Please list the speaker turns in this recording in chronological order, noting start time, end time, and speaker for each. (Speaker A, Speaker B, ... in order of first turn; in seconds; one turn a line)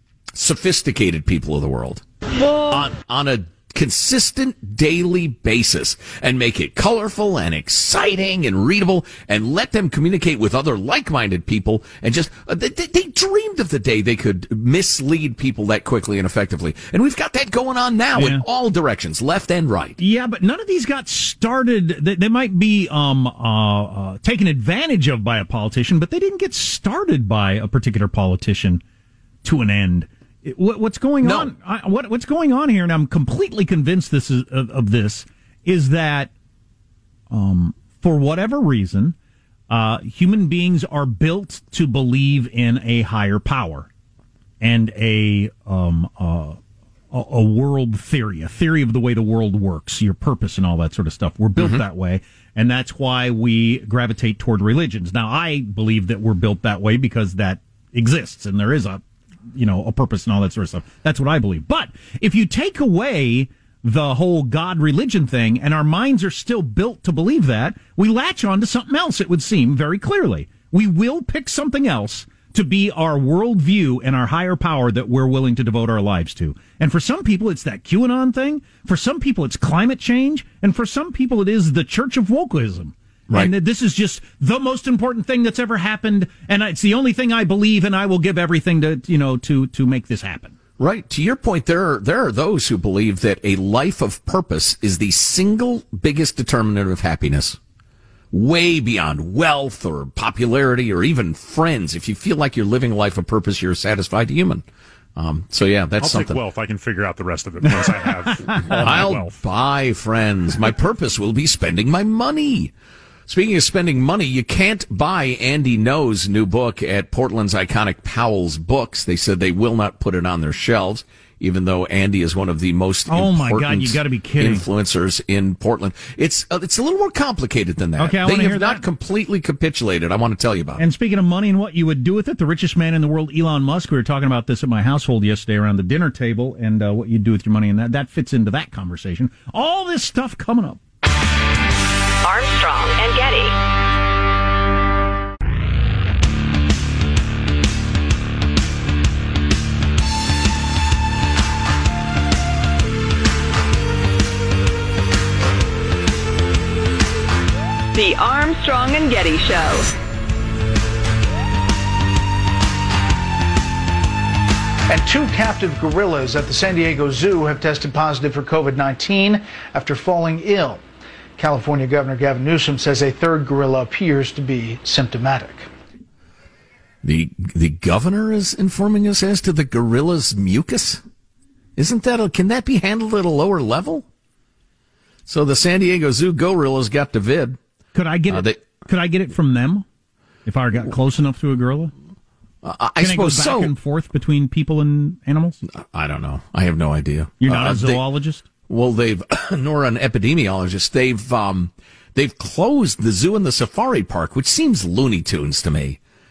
Speaker A: 0.3-2.0
Speaker A: 2.6-20.0
Speaker B: 18.1-18.4
Speaker B: 20.0-28.8
Speaker B: 29.4-36.3
Speaker A: 31.2-31.5
Speaker B: 37.3-39.1
Speaker B: 39.7-43.9
Speaker B: 44.6-46.6
Speaker B: 47.1-59.0
Speaker A: 51.6-51.8
Speaker B: 59.5-90.5
Speaker A: 90.8-97.6
Speaker A: 98.3-104.6
Speaker A: 105.2-106.4
Speaker C: 106.0-109.3
Speaker B: 107.7-108.9
Speaker A: 108.7-112.7
Speaker A: 113.3-130.8
Speaker B: 123.1-124.6
Speaker B: 128.0-128.8
Speaker B: 130.8-140.8
Speaker D: 142.2-143.6
Speaker D: 157.9-159.9
Speaker E: 164.9-170.8
Speaker E: 171.4-175.7
Speaker A: 177.0-181.0
Speaker A: 181.8-184.1
Speaker A: 185.3-187.6
Speaker B: 187.9-189.8
Speaker A: 188.3-188.6
Speaker B: 190.4-191.9
Speaker A: 192.6-193.7
Speaker B: 193.0-195.6
Speaker A: 195.7-198.0
Speaker B: 197.4-198.4
Speaker A: 198.7-206.0